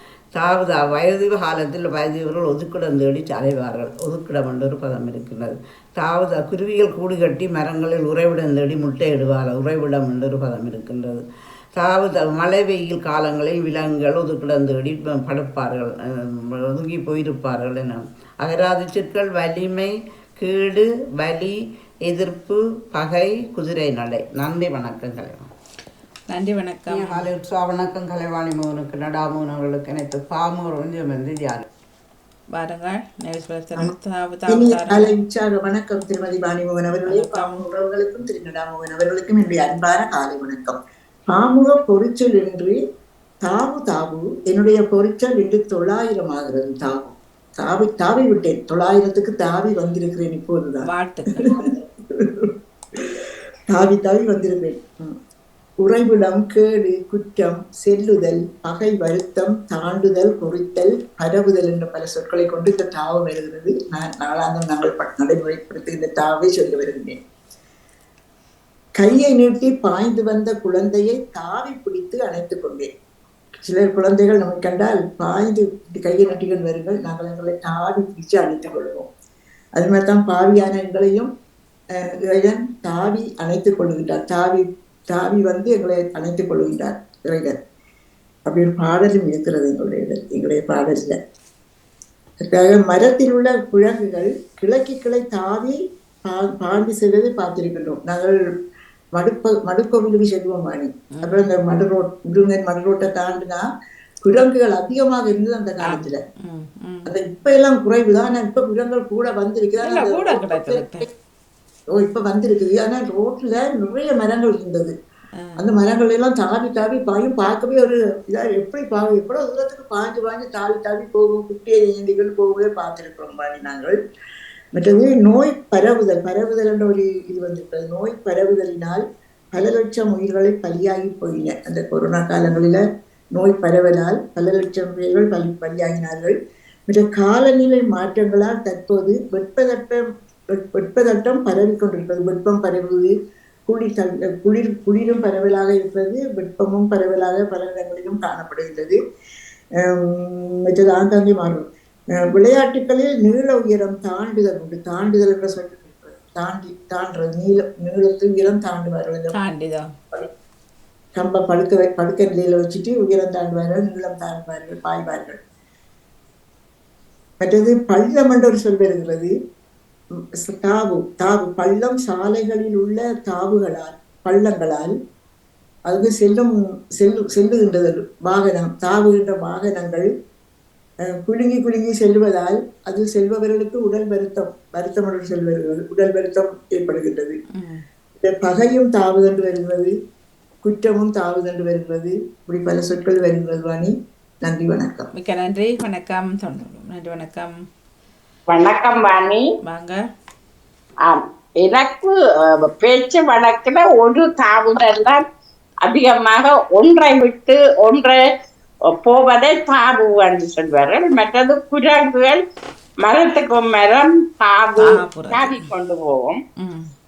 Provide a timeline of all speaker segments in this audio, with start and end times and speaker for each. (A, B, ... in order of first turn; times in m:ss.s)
0:00.3-0:11.2 A
0:11.8-0:25.5 A
0:26.3-0:27.3 B
0:26.9-0:31.7 A
0:32.5-0:35.1 B
0:34.5-0:42.8 C
0:37.1-0:37.7 B
0:43.4-0:53.2 C
0:50.9-0:51.6 B
0:53.7-0:55.2 C
0:55.8-1:07.2 C
1:09.0-1:12.9 C
1:13.6-1:19.1 C
1:19.8-1:21.3 C
1:21.9-1:27.6 C
1:28.4-1:31.2 C
1:32.5-1:38.4 C
1:39.2-1:43.6 C
1:41.1-1:41.5 B
1:44.2-1:46.2 C
1:45.9-1:47.1 B
1:47.1-1:51.1 C
1:49.8-1:51.1 B
1:51.9-1:54.9 C
1:55.6-2:04.0 C
2:04.7-2:12.8 C
2:13.3-2:16.4 C
2:16.9-2:23.1 C
2:23.7-2:29.0 C
2:29.8-2:39.3 C
2:39.3-2:39.9 B
2:41.2-2:45.4 C
2:47.4-2:49.3 C
2:50.4-2:54.9 C
2:55.9-3:00.1 C
3:01.1-3:07.4 C
3:07.6-3:07.8 B
3:08.2-3:09.9 C
3:10.6-3:15.1 C
3:15.1-3:17.5 B
3:18.5-3:19.4 D
3:19.6-3:20.0 B
3:21.0-3:25.2 D
3:25.8-3:28.2 D
3:28.9-3:32.4 D
3:33.0-3:36.4 D
3:34.8-3:35.6 B
3:36.6-3:36.9 B